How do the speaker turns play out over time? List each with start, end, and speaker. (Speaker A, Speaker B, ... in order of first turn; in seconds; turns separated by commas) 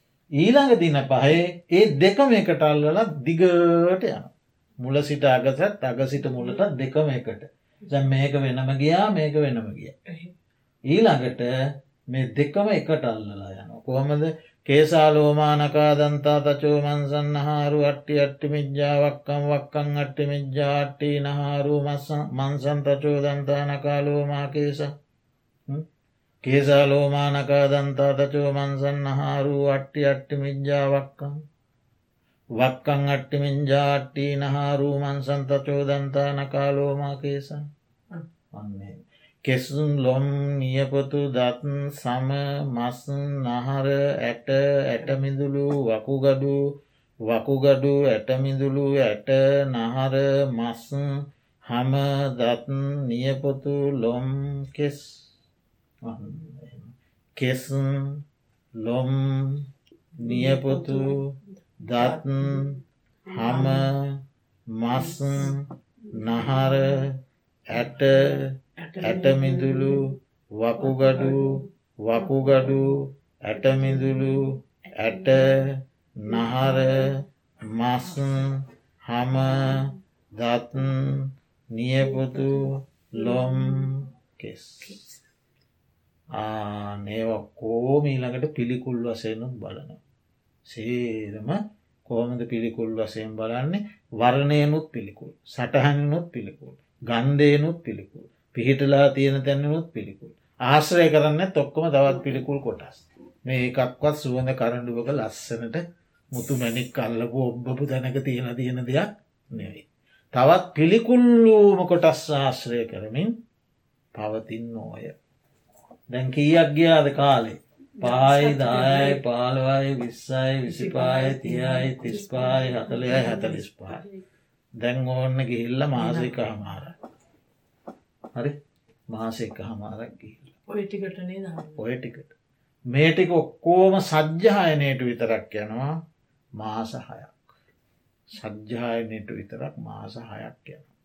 Speaker A: 0.4-9.9, Speaker B: 10.1-10.3, Speaker A: 10.9-11.5, Speaker A: 12.1-24.9, Speaker A: 26.4-31.4, Speaker A: 32.6-37.6, Speaker A: 38.5-46.6, Speaker A: 47.3-51.1, Speaker A: 51.6-55.2, Speaker A: 56.0-58.2, Speaker A: 58.8-59.6, Speaker B: 60.2-61.0, Speaker A: 60.2-62.8, Speaker B: 61.9-62.8, Speaker B: 63.3-63.9, Speaker A: 63.3-64.2, Speaker A: 64.7-67.1, Speaker B: 64.9-65.5, Speaker B: 66.2-67.0, Speaker A: 67.7-85.0, Speaker B: 67.7-70.1, Speaker B: 70.8-71.6, Speaker B: 72.2-73.0, Speaker B: 73.6-74.4, Speaker B: 75.0-75.7, Speaker B: 76.3-77.2, Speaker B: 78.1-78.4, Speaker B: 79.4-79.9, Speaker B: 82.1-82.5, Speaker B: 83.2-83.9, Speaker A: 86.3-90.0, Speaker A: 90.7-113.3, Speaker A: 114.2-115.1, Speaker A: 116.1-124.1, Speaker B: 118.0-119.2, Speaker B: 120.7-123.6, Speaker A: 124.8-126.9, Speaker B: 125.9-126.9, Speaker A: 129.1-130.6, Speaker B: 130.7-131.8, Speaker A: 131.8-132.3, Speaker A: 132.9-135.9, Speaker A: 136.6-137.5, Speaker A: 138.3-140.9